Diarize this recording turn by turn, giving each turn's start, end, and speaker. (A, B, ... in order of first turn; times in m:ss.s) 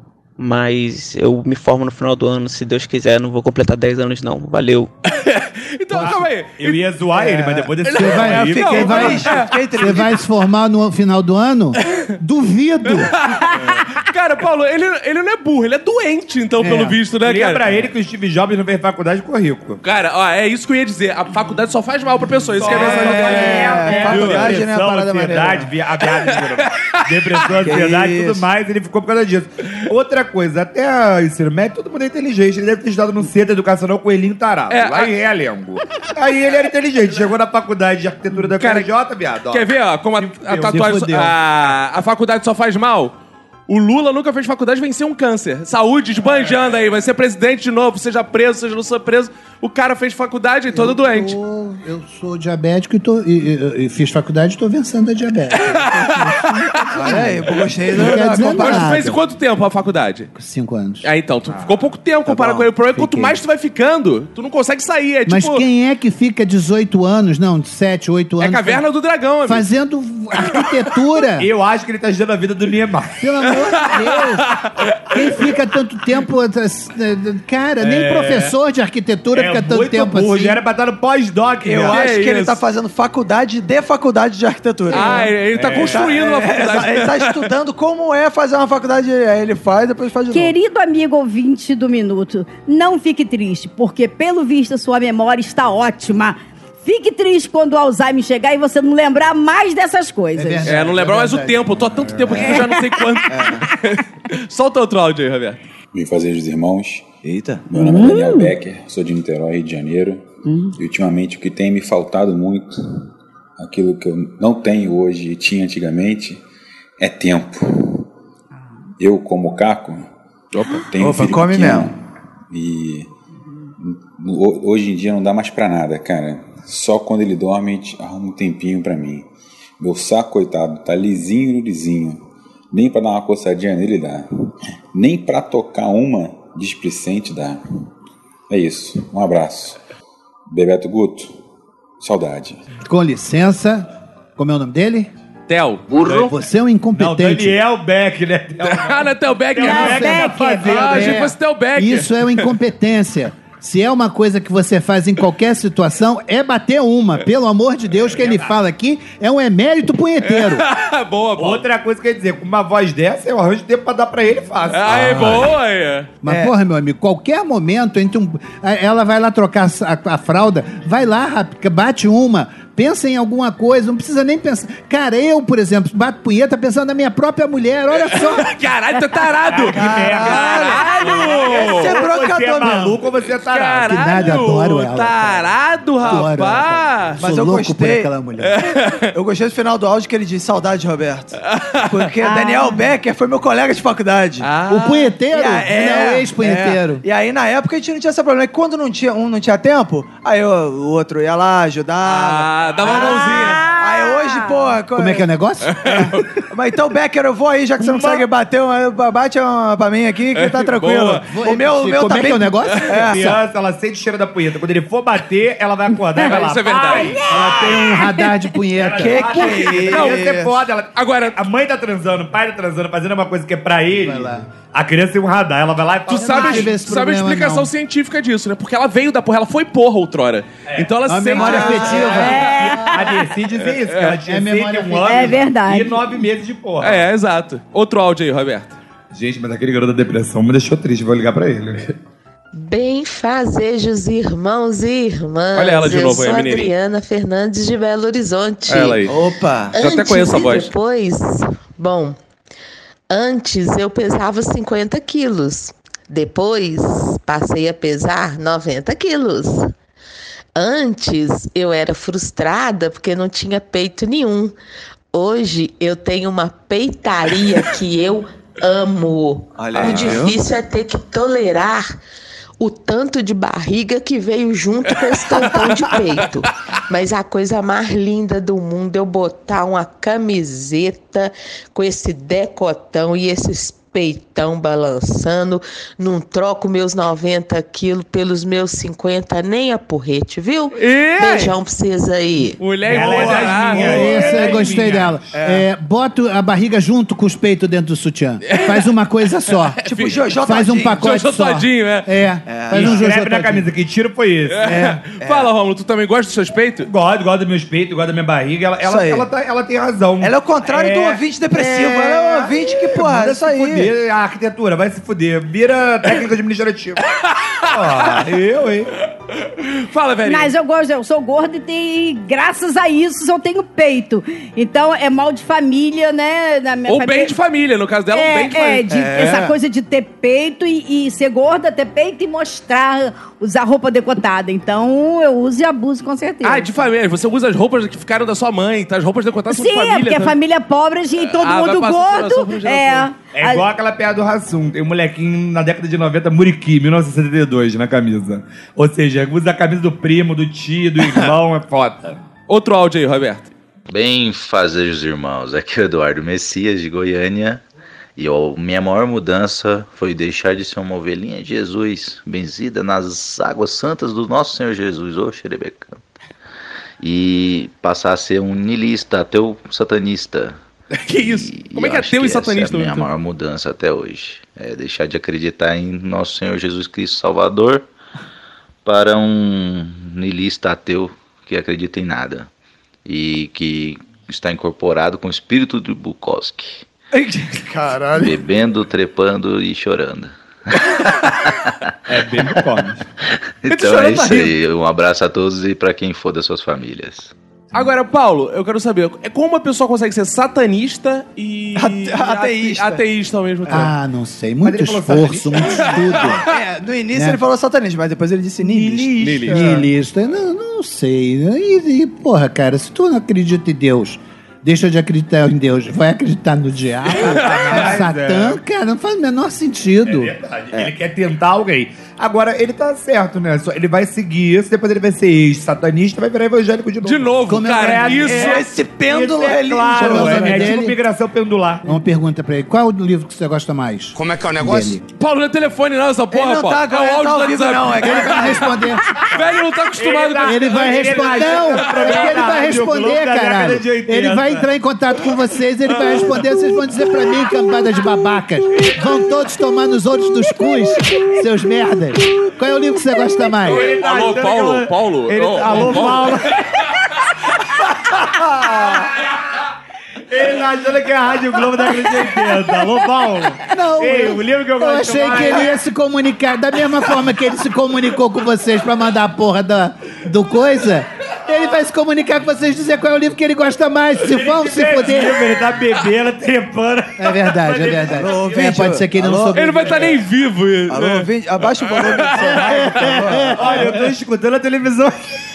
0:00.4-0:04.9 A
0:05.2-0:06.8 B
0:06.0-0:09.3 C
0:07.1-0:10.2 D
0:07.8-0:09.9 B
0:08.0-0:13.2 E
0:13.2-0:17.7 B
0:16.8-0:19.8 C
0:19.8-0:24.6 B
0:22.6-0:39.7 C
0:22.6-0:25.7 D
0:26.2-0:27.5 B
0:27.6-0:28.4 D
0:34.7-0:35.1 B
0:38.6-0:38.9 B
0:39.5-0:43.1 B
0:40.2-0:41.0 C
0:40.7-0:41.3 E
0:43.7-0:51.4 B
0:50.7-0:59.2 E
0:55.5-0:56.9 B
0:56.9-0:59.0 D
0:58.4-1:00.3 B
1:00.4-1:01.1 E
1:01.0-1:05.6 B
1:02.3-1:02.6 D
1:02.9-1:03.4 E
1:05.3-1:08.8 E
1:08.4-1:09.7 B
1:09.4-1:11.5 E
1:11.4-1:13.2 C
1:13.2-1:20.6 E
1:13.8-1:14.7 B
1:17.8-1:18.5 C
1:19.3-1:22.0 C
1:21.6-1:30.5 D
1:21.9-1:22.6 B
1:24.9-1:27.5 B
1:24.9-1:25.3 F
1:25.5-1:26.1 C
1:30.3-1:40.7 F
1:40.4-1:42.5 E
1:40.6-1:45.6 B
1:42.5-1:43.0 F
1:43.3-1:43.7 D
1:45.9-1:47.1 G
1:47.2-1:47.7 D
1:47.7-1:52.8 G
1:53.6-1:56.4 G
1:57.0-1:58.1 G
1:59.0-2:00.1 G
2:00.5-2:00.8 B
2:00.9-2:02.0 G
2:01.0-2:01.9 D
2:02.5-2:03.1 G
2:03.8-2:09.3 G
2:09.8-2:12.2 G
2:12.7-2:14.3 G
2:14.9-2:17.6 G
2:18.5-2:19.8 G
2:20.5-2:21.3 G
2:22.0-2:22.6 G
2:22.8-2:25.1 E
2:25.5-2:25.9 B
2:26.0-2:26.3 C
2:26.0-2:27.6 E
2:26.9-2:31.2 C
2:28.6-2:32.5 B
2:29.6-2:30.8 F
2:29.6-2:40.6 E
2:38.2-2:38.5 C
2:40.2-2:41.6 B
2:41.4-2:45.5 C
2:44.7-2:46.1 B
2:46.2-2:58.5 E
2:58.0-3:02.0 B
2:59.5-3:03.9 C
2:59.6-3:03.0 D
3:00.8-3:01.3 F
3:02.6-3:03.0 E
3:03.4-3:07.2 B
3:03.9-3:05.5 E
3:06.0-3:08.6 E
3:07.2-3:08.1 D
3:08.4-3:09.1 B
3:09.1-3:14.5 D
3:11.5-3:12.1 B
3:12.2-3:12.9 F
3:14.4-3:15.2 B
3:14.7-3:17.0 E
3:15.3-3:25.3 D
3:22.0-3:23.6 B
3:22.8-3:24.7 F
3:25.0-3:26.2 E
3:25.7-3:26.4 B
3:26.5-3:33.2 D
3:27.8-3:28.2 C
3:30.3-3:31.2 B
3:31.3-3:33.4 E
3:33.1-3:37.3 C
3:36.2-3:37.2 B
3:36.9-3:38.3 F
3:37.3-3:39.4 E
3:38.8-3:46.7 C
3:39.0-3:40.6 D
3:39.4-3:40.2 B
3:41.0-3:41.4 B
3:43.9-3:44.5 E
3:46.1-3:52.6 B
3:46.2-3:47.7 E
3:50.7-3:57.1 C
3:51.1-3:53.1 E
3:51.4-3:52.1 D
3:51.6-3:53.2 F
3:53.9-3:54.2 B
3:54.2-3:55.4 E
3:55.1-3:56.1 F
3:56.8-3:58.8 B
3:59.1-4:01.9 C
4:02.5-4:09.0 H
4:05.5-4:06.7 B
4:08.7-4:09.2 B
4:09.0-4:09.8 D
4:09.7-4:12.2 H
4:09.8-4:10.7 B
4:13.1-4:19.7 H
4:20.6-4:24.5 H
4:25.1-4:32.0 H
4:29.6-4:30.4 D
4:29.8-4:30.2 B
4:32.6-4:52.6 H
4:50.8-4:51.5 B
4:52.6-4:54.4 B
4:52.9-4:54.7 D
4:52.9-4:55.2 C
4:53.9-5:03.7 E
4:55.4-4:55.7 D
4:58.5-4:58.9 B
4:59.8-5:00.2 B
4:59.9-5:01.0 D
5:01.0-5:02.1 B
5:02.5-5:03.0 D
5:02.7-5:05.0 C
5:04.5-5:06.9 B
5:05.2-5:05.5 D
5:06.9-5:17.0 C
5:08.8-5:09.3 D
5:10.2-5:13.9 D
5:17.1-5:18.3 B
5:17.7-5:18.9 C
5:19.4-5:20.5 B
5:20.2-5:27.4 F
5:26.9-5:29.3 B
5:28.1-5:36.7 F
5:28.9-5:29.5 D
5:36.4-5:40.4 B
5:39.5-5:43.6 F
5:41.2-5:43.1 B
5:43.3-5:52.2 C
5:52.5-5:53.5 B
5:53.9-5:57.6 I
5:58.2-6:06.0 I
6:07.0-6:10.6 I
6:10.9-6:13.1 B
6:11.2-6:17.9 I
6:18.8-6:22.5 I
6:23.0-6:26.9 I
6:27.2-6:28.4 D
6:28.2-6:30.3 I
6:32.1-6:33.1 C
6:33.6-6:37.3 I
6:33.8-6:34.2 C
6:33.9-6:34.4 D
6:37.7-6:43.9 B
6:41.8-6:43.0 D
6:43.7-6:46.4 E
6:44.6-6:46.4 C
6:46.4-6:49.5 D
6:47.1-6:47.4 E
6:48.6-6:49.8 C
6:49.2-6:49.6 B
6:49.5-7:00.3 E
6:57.2-6:58.6 C
6:57.2-6:57.8 B
7:00.1-7:11.8 C
7:07.0-7:08.6 B
7:07.5-7:08.6 E
7:08.3-7:10.8 D
7:10.0-7:11.0 E
7:11.8-7:15.0 E
7:15.2-7:22.3 B
7:16.3-7:18.8 D
7:18.0-7:19.1 E
7:20.0-7:24.7 C
7:20.4-7:33.9 E
7:33.7-7:36.6 B
7:33.7-7:36.6 C
7:37.9-7:39.2 C
7:40.3-7:45.7 C
7:43.7-7:55.4 E
7:54.2-7:58.2 C
7:57.2-8:00.1 E
7:58.1-8:00.1 D
7:59.5-8:01.3 B
8:00.9-8:03.9 D
8:01.8-8:02.7 B
8:02.4-8:03.9 E
8:03.6-8:05.2 C